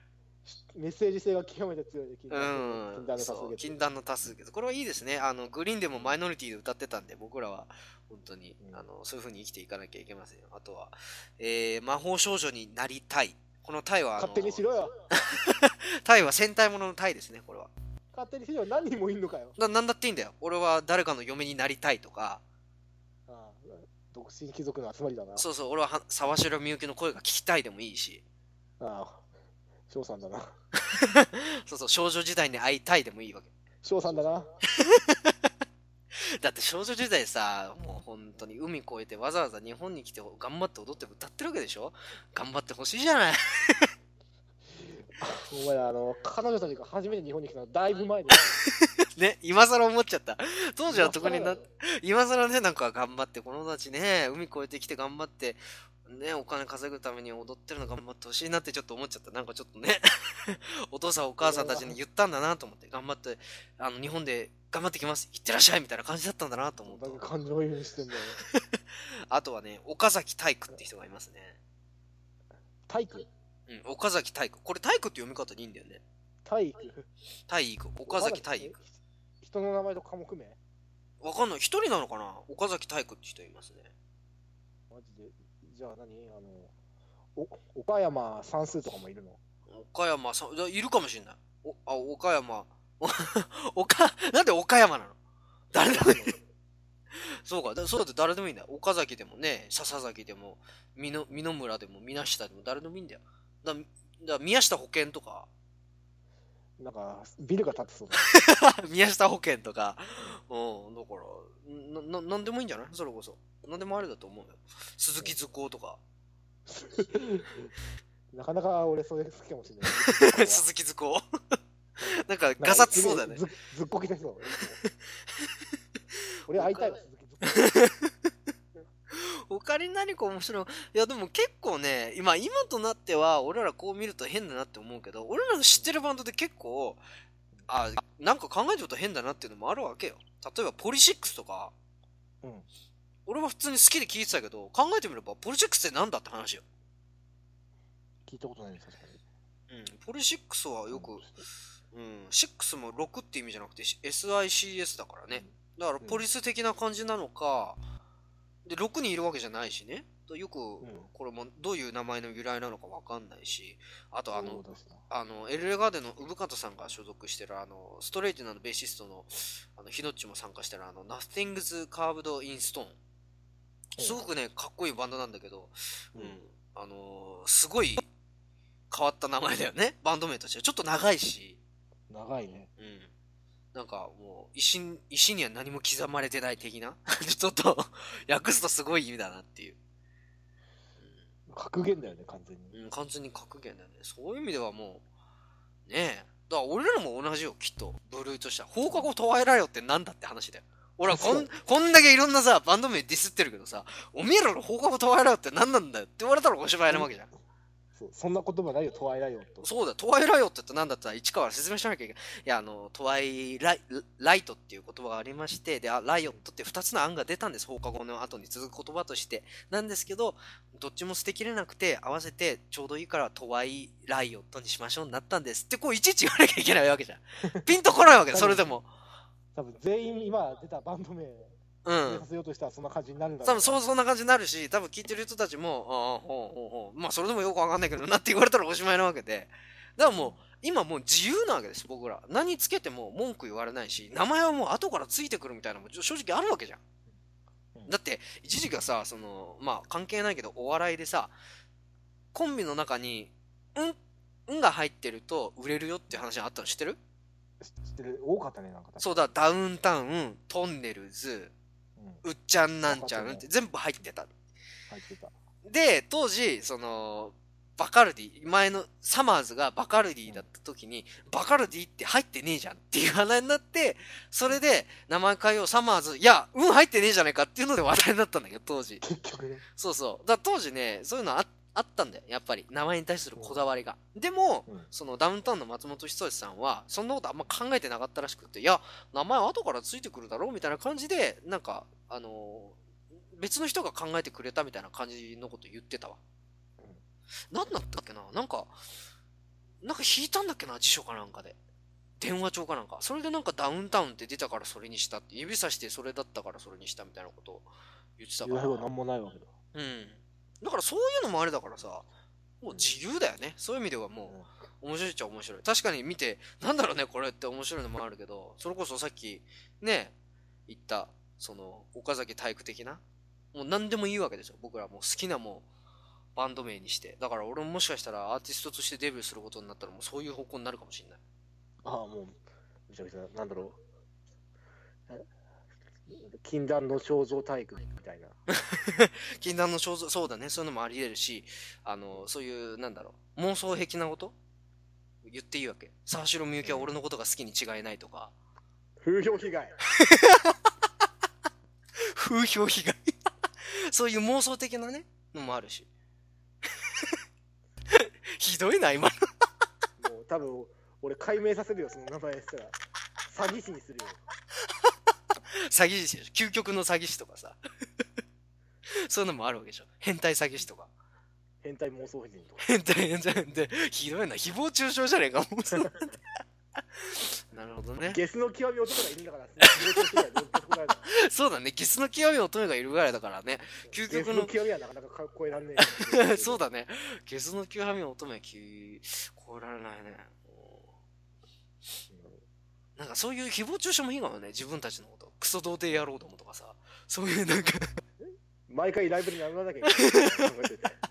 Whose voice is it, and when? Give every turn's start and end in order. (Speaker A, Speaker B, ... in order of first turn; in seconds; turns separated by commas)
Speaker A: 0.5-3.8, Speaker B: 2.3-17.7, Speaker A: 8.6-8.8, Speaker A: 14.2-14.9, Speaker A: 18.1-19.6, Speaker B: 19.6-22.4, Speaker A: 23.3-25.4, Speaker B: 25.4-28.2, Speaker A: 28.8-29.2, Speaker A: 29.9-30.5, Speaker B: 30.8-33.5, Speaker A: 33.8-34.5, Speaker B: 34.7-35.4, Speaker B: 36.4-43.9, Speaker A: 44.8-48.6, Speaker B: 49.2-67.2, Speaker A: 50.9-51.6, Speaker A: 61.4-62.0, Speaker A: 66.8-68.4, Speaker B: 69.3-71.6, Speaker A: 72.9-73.3, Speaker B: 73.7-76.0, Speaker A: 76.5-77.1, Speaker B: 77.5-78.8, Speaker A: 78.1-78.9, Speaker A: 79.4-80.6, Speaker B: 81.2-83.9, Speaker A: 84.9-86.7, Speaker A: 87.4-89.4, Speaker B: 89.7-95.2, Speaker B: 95.7-96.3, Speaker A: 95.8-96.4, Speaker B: 97.4-105.5, Speaker A: 106.8-108.3, Speaker B: 108.2-116.0, Speaker A: 116.7-117.7, Speaker A: 118.3-120.7, Speaker B: 119.9-121.2, Speaker B: 122.0-123.4, Speaker A: 122.6-124.8, Speaker B: 124.8-125.5, Speaker A: 126.5-127.7, Speaker B: 126.5-128.1, Speaker B: 129.1-137.0, Speaker B: 137.7-141.7, Speaker A: 142.4-142.7, Speaker B: 143.3-146.6, Speaker A: 148.3-149.2, Speaker B: 149.7-151.3, Speaker A: 150.9-151.3, Speaker B: 151.9-157.8, Speaker B: 158.7-173.0, Speaker A: 160.8-161.1, Speaker A: 164.3-165.0, Speaker A: 174.0-174.2, Speaker B: 174.0-178.1, Speaker B: 178.9-181.6, Speaker A: 182.1-182.7, Speaker B: 182.8-183.1, Speaker B: 183.7-189.8, Speaker A: 191.5-192.8, Speaker B: 192.7-195.0, Speaker B: 195.9-207.3, Speaker A: 201.1-201.5, Speaker A: 207.9-209.7, Speaker B: 209.6-228.9, Speaker A: 228.3-228.7, Speaker A: 229.6-233.8, Speaker B: 231.8-232.3, Speaker B: 233.4-246.8, Speaker A: 240.0-240.4, Speaker B: 247.9-251.3, Speaker B: 252.3-257.0, Speaker A: 257.6-259.3, Speaker B: 259.0-261.5, Speaker A: 262.0-262.2, Speaker B: 262.2-264.3, Speaker A: 262.9-263.5, Speaker A: 264.9-265.3, Speaker B: 265.7-279.0, Speaker A: 279.0-279.6, Speaker B: 279.8-292.8, Speaker B: 293.3-296.2, Speaker B: 297.5-298.8, Speaker B: 299.8-301.6, Speaker B: 302.2-308.9, Speaker A: 308.4-309.5, Speaker B: 309.7-312.1, Speaker B: 312.6-320.1, Speaker B: 320.7-323.0, Speaker B: 323.5-325.7, Speaker B: 326.4-331.2, Speaker A: 331.8-333.8, Speaker A: 336.1-338.4, Speaker B: 338.5-344.4, Speaker B: 345.2-348.3, Speaker A: 346.6-346.9, Speaker A: 349.0-349.8, Speaker B: 349.9-350.6, Speaker B: 352.0-353.1, Speaker B: 353.9-355.9, Speaker B: 357.9-359.1, Speaker A: 360.0-364.2, Speaker B: 365.7-367.6, Speaker B: 369.0-370.9, Speaker A: 371.6-372.6, Speaker B: 372.6-376.2, Speaker B: 377.0-378.2, Speaker A: 378.1-381.1, Speaker B: 379.6-380.0, Speaker B: 381.1-384.5, Speaker A: 383.9-386.6, Speaker B: 385.8-390.9, Speaker A: 392.1-392.4, Speaker B: 393.0-398.0, Speaker A: 398.7-401.0, Speaker B: 399.9-400.4